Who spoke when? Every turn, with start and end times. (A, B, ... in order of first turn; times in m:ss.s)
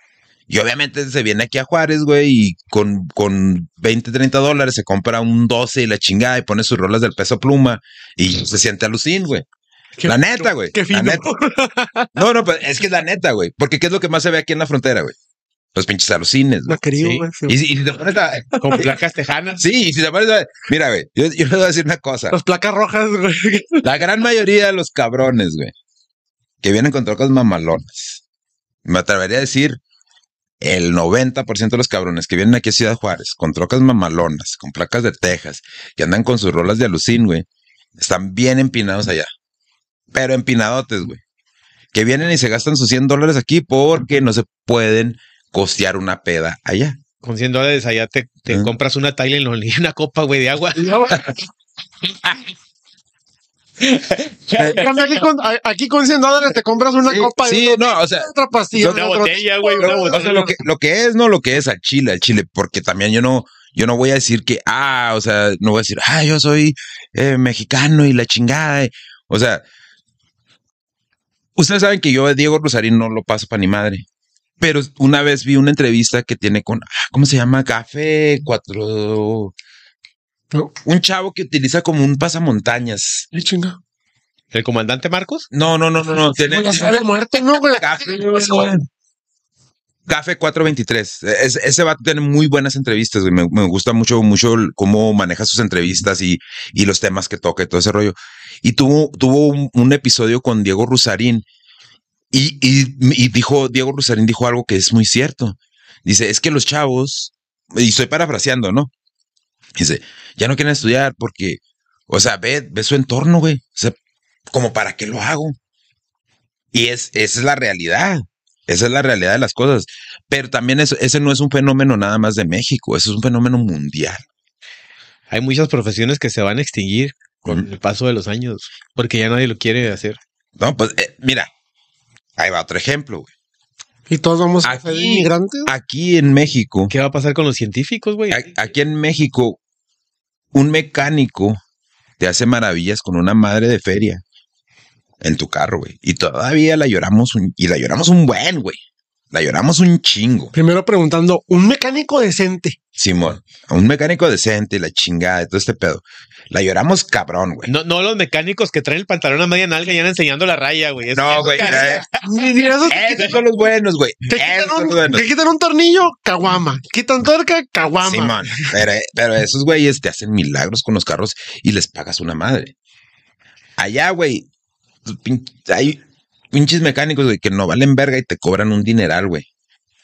0:00.5-0:09.4 A
0:10.0-0:12.1 B
0:10.0-0:11.2 A
0:12.2-0:15.1 A
0:15.7-0:16.8 A
0:16.7-0:17.6 B
0:17.0-0:17.3 C
0:17.5-0:18.9 A
0:18.6-0:19.6 C
0:19.6-0:22.4 A
0:22.3-0:23.8 B
0:23.8-0:25.7 A
0:26.6-0:28.2 A
0:28.8-0:29.8 A
0:30.6-0:37.4 A
0:38.0-0:39.3 A
0:40.1-0:41.2 A
0:41.9-0:47.0 A
0:47.2-0:50.9 C
0:50.8-0:51.4 B
0:54.2-0:55.0 C
0:54.5-1:00.3 B
0:54.6-0:54.9 A
0:57.1-0:59.0 A
0:58.8-1:00.6 C
0:59.8-1:09.6 A
1:11.6-1:14.0 A
1:14.6-1:19.5 A
1:20.8-1:23.3 A
1:23.3-1:23.8 B
1:24.5-1:25.4 C
1:25.5-1:28.8 A
1:26.0-1:28.8 B
1:30.1-1:41.4 A
1:42.3-1:48.9 A
1:49.8-1:54.0 A
1:54.5-1:55.6 A
1:56.7-2:04.2 A
2:05.3-2:10.2 C
2:10.6-2:11.5 A
2:12.4-2:13.3 A
2:14.1-2:15.7 B
2:14.6-2:16.9 A
2:16.9-2:18.5 C
2:18.3-2:19.6 A
2:20.5-2:21.6 A
2:22.2-2:24.2 A
2:25.2-2:28.8 A
2:29.3-2:30.5 A
2:30.5-2:32.8 B
2:33.0-2:37.7 A
2:37.6-2:42.1 C
2:41.1-2:42.0 A
2:41.6-2:43.4 B
2:42.9-2:45.2 A
2:44.2-2:48.6 B
2:48.0-2:52.7 A
2:53.8-2:54.5 A
2:55.0-2:59.4 A